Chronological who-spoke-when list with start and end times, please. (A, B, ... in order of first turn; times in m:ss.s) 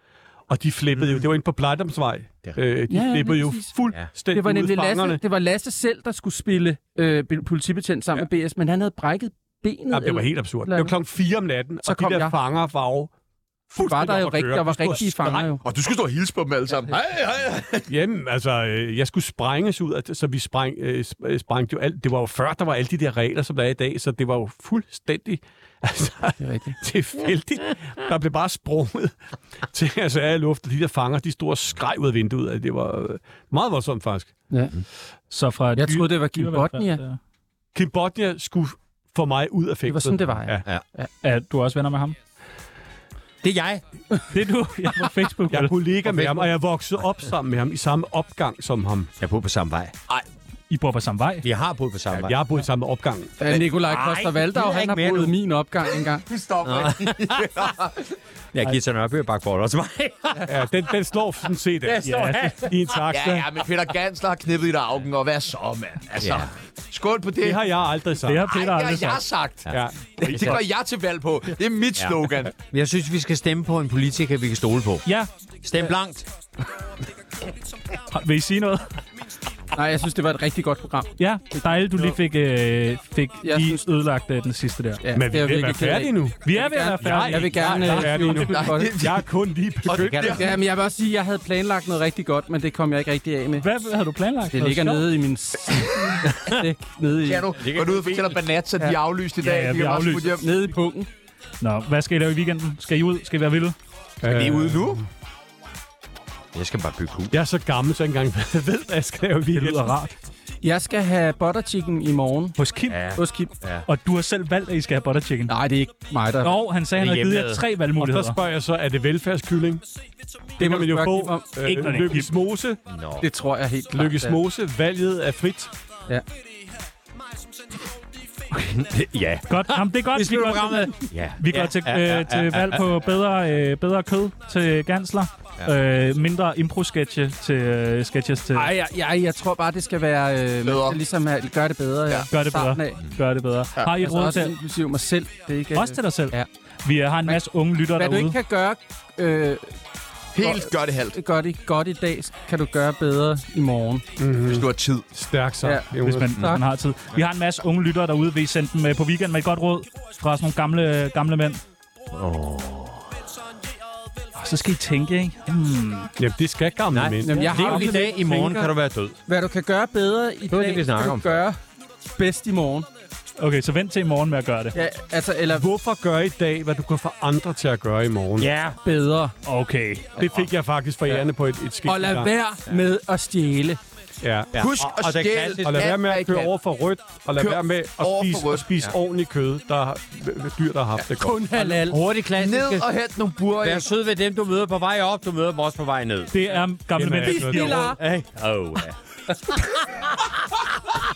0:00.5-0:05.2 A
0:02.9-0:03.7 B
0:04.3-0:10.9 B
0:09.9-0:13.1 A
0:11.8-0:12.3 B
0:13.7-0:15.4 A
0:13.8-0:15.6 B
0:15.6-0:17.9 C
0:17.9-0:34.3 A
0:26.4-0:26.8 B
0:35.3-0:37.2 D
0:35.8-0:37.0 B
0:37.7-0:40.6 A
0:39.9-0:41.1 B
0:41.2-0:42.2 D
0:43.4-0:43.8 E
0:44.3-0:45.8 D
0:45.5-0:49.1 A
0:46.1-0:46.5 E
0:49.2-0:49.9 E
0:50.7-0:51.5 D
0:51.4-0:52.4 E
0:52.1-0:53.4 A
0:53.4-0:56.2 B
0:53.8-0:55.3 E
0:56.2-0:58.2 C
0:56.6-0:57.5 E
0:58.5-1:00.5 E
1:00.4-1:03.5 A
1:01.9-1:02.9 E
1:02.0-1:02.6 D
1:03.1-1:07.7 C
1:06.2-1:06.5 E
1:07.4-1:08.5 A
1:08.2-1:09.2 D
1:08.4-1:12.5 C
1:09.7-1:09.9 A
1:10.2-1:10.6 D
1:12.0-1:15.1 E
1:15.0-1:15.3 D
1:15.6-1:16.3 E
1:18.1-1:18.9 D
1:19.7-1:21.1 B
1:21.2-1:25.0 D
1:23.4-1:23.8 B
1:25.0-1:28.9 B
1:25.1-1:26.4 A
1:26.4-1:28.1 D
1:27.0-1:30.3 A
1:28.2-1:29.3 C
1:29.8-1:30.6 C
1:29.9-1:30.5 E
1:30.2-1:33.7 B
1:33.6-1:35.1 D
1:34.5-1:37.5 B
1:36.3-1:36.6 E
1:37.2-1:40.5 C
1:37.6-1:38.4 E
1:39.4-1:40.5 D
1:40.4-1:41.1 B
1:41.6-1:43.8 D
1:44.2-1:45.0 A
1:44.2-1:45.0 C
1:46.5-1:47.3 E
1:47.3-1:50.0 A
1:49.5-1:50.1 D
1:50.6-1:52.6 B
1:52.6-1:53.0 D
1:52.9-1:53.9 E
1:53.1-1:53.5 B
1:53.8-1:55.6 D
1:55.5-1:56.6 B
1:56.4-1:58.4 D
1:57.0-1:57.6 E
1:58.0-1:59.8 A
2:00.6-2:02.8 A
2:00.6-2:01.6 B
2:01.6-2:02.3 D
2:02.9-2:03.3 E
2:03.2-2:04.4 B
2:03.9-2:05.7 A
2:08.5-2:08.8 D
2:08.7-2:13.1 E
2:09.5-2:18.7 D
2:18.5-2:23.0 B
2:20.6-2:21.0 C
2:22.3-2:24.6 D
2:23.9-2:26.5 B
2:25.7-2:28.4 D
2:28.0-2:29.7 B
2:30.3-2:31.2 C
2:30.4-2:34.0 B
2:34.2-2:36.4 A
2:34.4-2:35.1 C
2:35.6-2:36.6 B
2:36.0-2:41.6 D
2:42.1-2:43.3 E
2:44.3-2:46.1 D
2:46.2-2:48.7 A
2:46.9-2:49.2 E
2:47.2-2:48.2 B
2:47.5-2:48.0 D
2:49.3-2:51.6 B
2:50.5-2:51.4 E
2:52.2-2:52.9 B
2:53.4-2:54.8 D
2:54.7-2:55.7 B
2:55.5-2:58.5 A
2:58.4-2:58.8 E
2:58.8-2:59.3 B
2:59.4-3:00.2 D
3:00.2-3:02.3 A
3:01.8-3:03.8 B
3:04.2-3:04.6 A
3:04.5-3:05.9 E
3:04.6-3:06.5 C
3:05.6-3:11.7 A
3:07.4-3:08.7 C
3:11.2-3:12.0 B
3:11.6-3:12.9 E
3:12.4-3:13.9 C
3:13.6-3:16.3 E
3:16.3-3:18.0 D
3:16.9-3:17.9 A
3:17.2-3:18.0 B
3:18.0-3:19.7 E